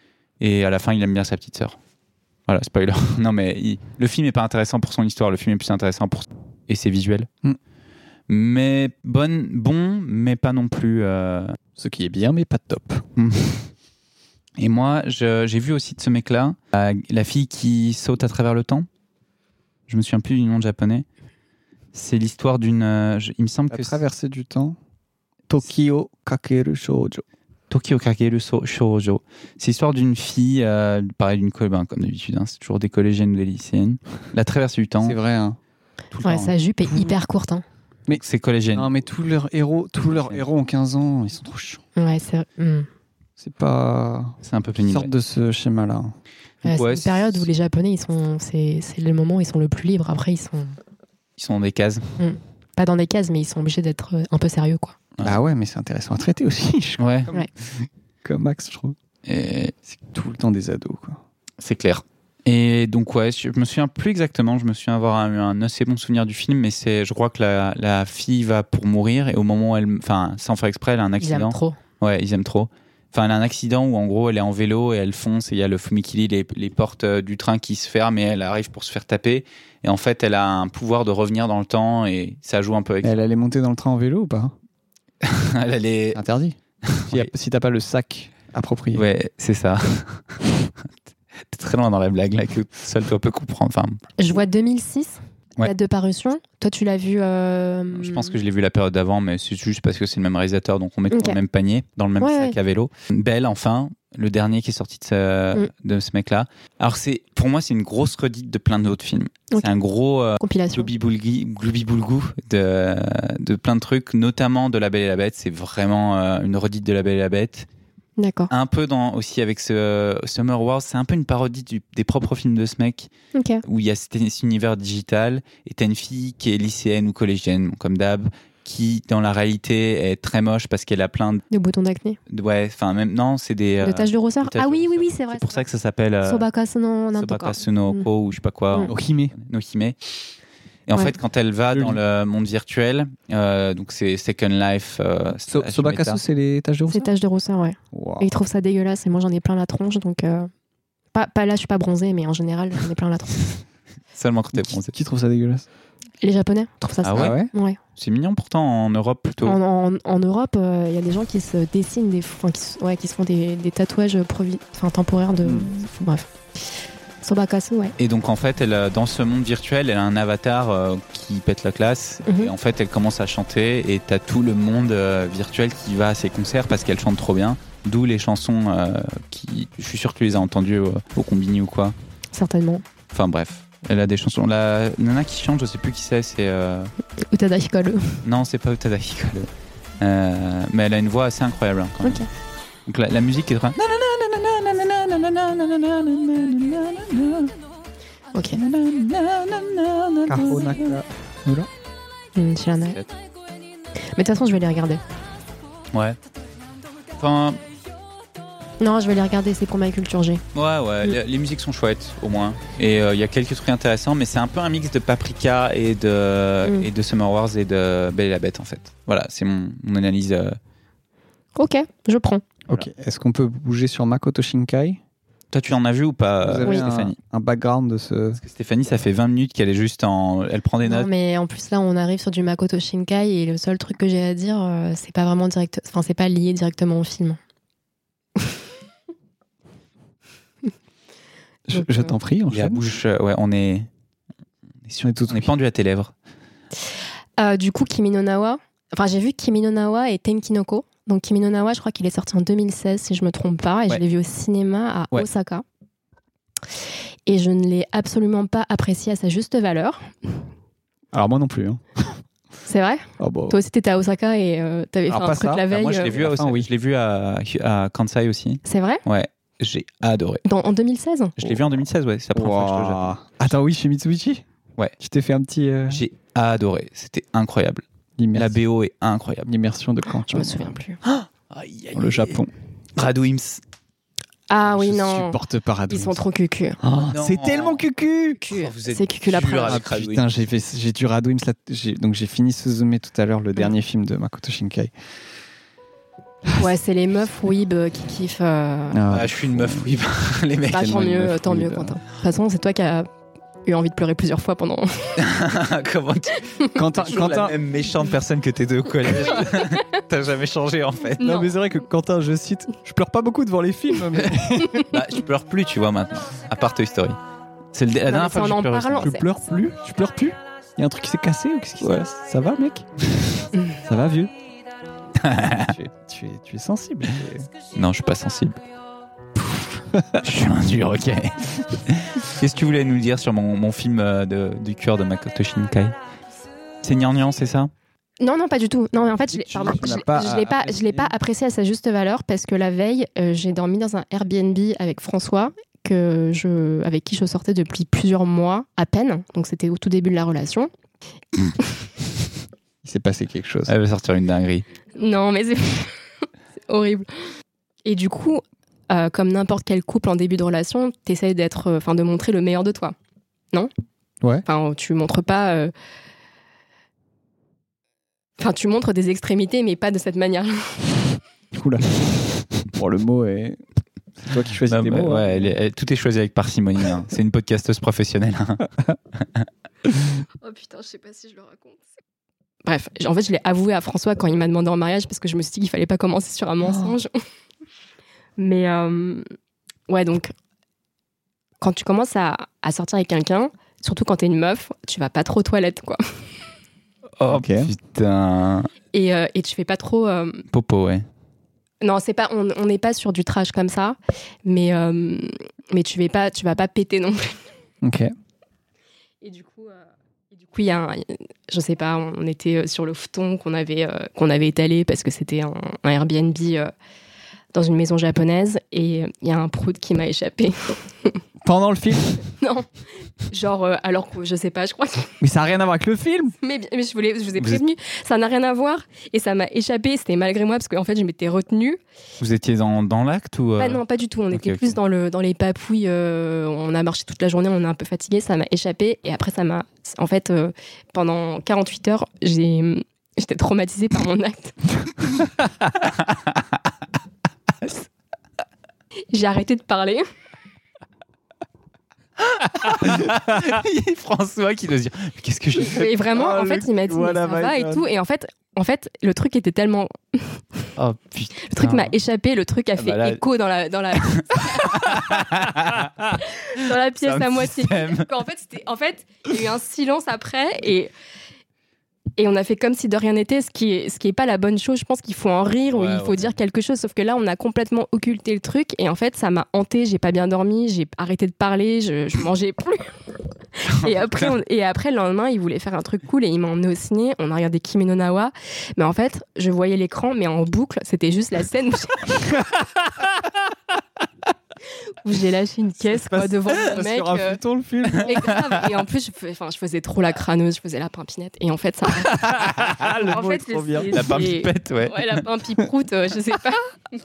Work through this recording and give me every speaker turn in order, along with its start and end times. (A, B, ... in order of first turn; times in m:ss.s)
0:00.4-0:01.8 A
0:02.5-0:07.3 A
0:08.3-0:11.6 A
0:11.8-0:13.0 B
0:13.2-0:13.7 A
0:14.6-0:18.9 A
0:19.9-0:21.0 A
0:21.9-0:24.0 A
0:23.7-0:24.8 B
0:25.5-0:27.2 B
0:27.7-0:35.2 A
0:35.0-0:35.6 B
0:36.1-0:36.5 A
0:36.2-0:37.6 C
0:36.9-0:37.1 B
0:38.1-0:38.9 A
0:38.7-0:41.8 B
0:40.0-0:40.4 A
0:42.0-0:42.9 C
0:43.4-0:46.1 B
0:44.4-0:45.1 A
0:46.6-0:47.5 A
0:46.6-0:50.7 C
0:51.4-0:52.1 A
0:52.2-0:54.9 C
0:55.2-0:59.0 B
0:57.0-0:57.3 A
0:59.2-0:59.7 A
0:59.9-1:01.2 B
1:01.6-1:23.2 A
1:11.2-1:11.8 C
1:23.0-1:24.5 B
1:25.2-1:26.2 A
1:26.1-1:29.0 B
1:26.8-1:27.3 A
1:28.9-1:30.7 A
1:31.5-1:34.0 A
1:34.2-1:38.3 C
1:37.9-1:57.7 A
1:41.1-1:41.4 C
1:42.2-1:42.6 C
1:50.4-1:50.9 C
1:58.2-1:58.5 C
1:58.5-2:03.1 A
2:03.3-2:03.6 C
2:03.6-2:11.4 A
2:11.5-2:12.2 C
2:12.3-2:16.5 A
2:13.8-2:15.6 C
2:16.2-2:18.0 C
2:17.1-2:20.0 A
2:18.8-2:19.3 B
2:20.9-2:26.2 A
2:21.7-2:22.0 B
2:25.5-2:27.1 B
2:26.9-2:30.5 C
2:27.9-2:28.3 B
2:31.1-2:33.6 C
2:34.1-2:34.9 A
2:34.5-2:35.6 B
2:36.2-2:37.8 C
2:37.0-2:37.4 A
2:37.2-2:37.5 B
2:38.0-2:39.6 A
2:39.4-2:46.7 C
2:45.4-2:45.7 B
2:47.2-2:47.9 C
2:48.0-3:01.9 A
2:52.2-2:52.5 C
3:02.3-3:02.8 C
3:03.1-3:06.9 A
3:07.3-3:08.2 C
3:08.2-3:12.3 A
3:12.9-3:17.5 A
3:18.3-3:18.6 C
3:18.5-3:21.0 A
3:20.2-3:21.7 B
3:22.4-3:23.0 C
3:24.2-3:25.0 C
3:27.2-3:27.6 A
3:28.8-3:30.4 C
3:30.5-3:40.6 A
3:41.6-3:42.4 C
3:42.7-3:45.0 B
3:45.5-3:47.2 A
3:46.4-3:48.4 B
3:48.4-3:51.1 A
3:50.8-3:57.4 C
4:01.7-4:02.8 B
4:01.7-4:02.1 C
4:02.5-4:03.9 A
4:04.8-4:06.1 A
4:05.0-4:05.5 B
4:07.4-4:15.6 C
4:17.3-4:20.4 C
4:21.1-4:22.2 B
4:22.6-4:26.1 C
4:23.2-4:23.6 B
4:25.1-4:26.7 B
4:25.7-4:30.4 A
4:28.6-4:29.0 C
4:30.4-4:31.3 C
4:31.4-4:33.1 A
4:32.3-4:34.4 B
4:35.0-4:36.0 B
4:35.9-4:37.8 A
4:38.2-4:38.6 B
4:38.3-4:39.5 A
4:39.5-4:40.7 B
4:40.3-4:41.0 C
4:41.0-4:42.4 A
4:41.9-4:42.5 B
4:43.0-4:43.6 A
4:44.5-4:45.4 C
4:44.6-4:46.2 B
4:45.9-4:46.8 C
4:46.8-4:48.4 B
4:47.1-4:47.8 A
4:48.4-4:49.8 C
4:48.5-4:50.3 A
4:49.6-4:54.9 B
4:56.5-4:59.0 C
4:58.9-4:59.9 B
4:59.1-5:01.2 A
5:00.7-5:03.1 C
5:00.7-5:02.0 B
5:03.6-5:05.2 C
5:05.2-5:11.2 A
5:06.7-5:07.6 B
5:09.3-5:09.7 C
5:11.2-5:11.5 C
5:11.2-5:14.8 B
5:14.8-5:17.2 A
5:17.7-5:19.1 A
5:18.1-5:19.2 C
5:19.0-5:22.9 B
5:23.8-5:24.3 B
5:25.2-5:25.7 A
5:25.4-5:27.5 B
5:27.7-5:28.6 A
5:30.2-5:35.9 A
5:36.8-5:37.7 A
5:38.2-5:50.7 C
5:39.3-5:41.1 B
5:52.8-5:53.7 B
5:53.7-5:54.6 A
5:55.0-5:56.0 C
5:56.7-5:57.1 C
5:57.8-6:02.9 C
6:04.4-6:05.7 C
6:08.4-6:11.0 C
6:11.5-6:13.6 B
6:14.2-6:15.5 B
6:14.7-6:18.7 A
6:19.2-6:19.4 A
6:20.4-6:21.8 C
6:22.6-6:27.1 C
6:26.6-6:26.9 B
6:28.4-6:29.2 C
6:29.9-6:30.3 C
6:31.6-6:36.0 C
6:37.2-6:38.7 A
6:37.3-6:37.7 B
6:38.9-6:40.4 C
6:40.5-6:41.0 A
6:41.8-6:47.4 C
6:47.8-6:48.1 B
6:49.2-6:56.7 C
6:57.5-7:01.2 C
7:01.4-7:02.2 B
7:02.4-7:02.7 C
7:03.3-7:05.1 C
7:05.2-7:06.3 B
7:06.4-7:11.8 C
7:12.2-7:14.8 A
7:13.6-7:24.6 C
7:25.8-7:26.4 A
7:29.1-7:30.0 C
7:32.2-7:36.4 A
7:35.6-7:40.6 C
7:36.1-7:37.7 B
7:40.8-7:41.9 A
7:41.4-7:45.2 C
7:42.8-7:43.2 A
7:44.0-7:46.2 A
7:46.2-7:50.9 C
7:46.9-7:48.1 A
7:52.2-8:02.9 C
7:55.7-7:56.3 A
8:03.6-8:12.2 C
8:03.9-8:04.3 A
8:15.0-8:17.4 C
8:15.9-8:18.4 B
8:18.0-8:22.4 C
8:22.2-8:22.8 A
8:22.3-8:24.2 B
8:22.9-8:26.6 C
8:23.9-8:25.2 A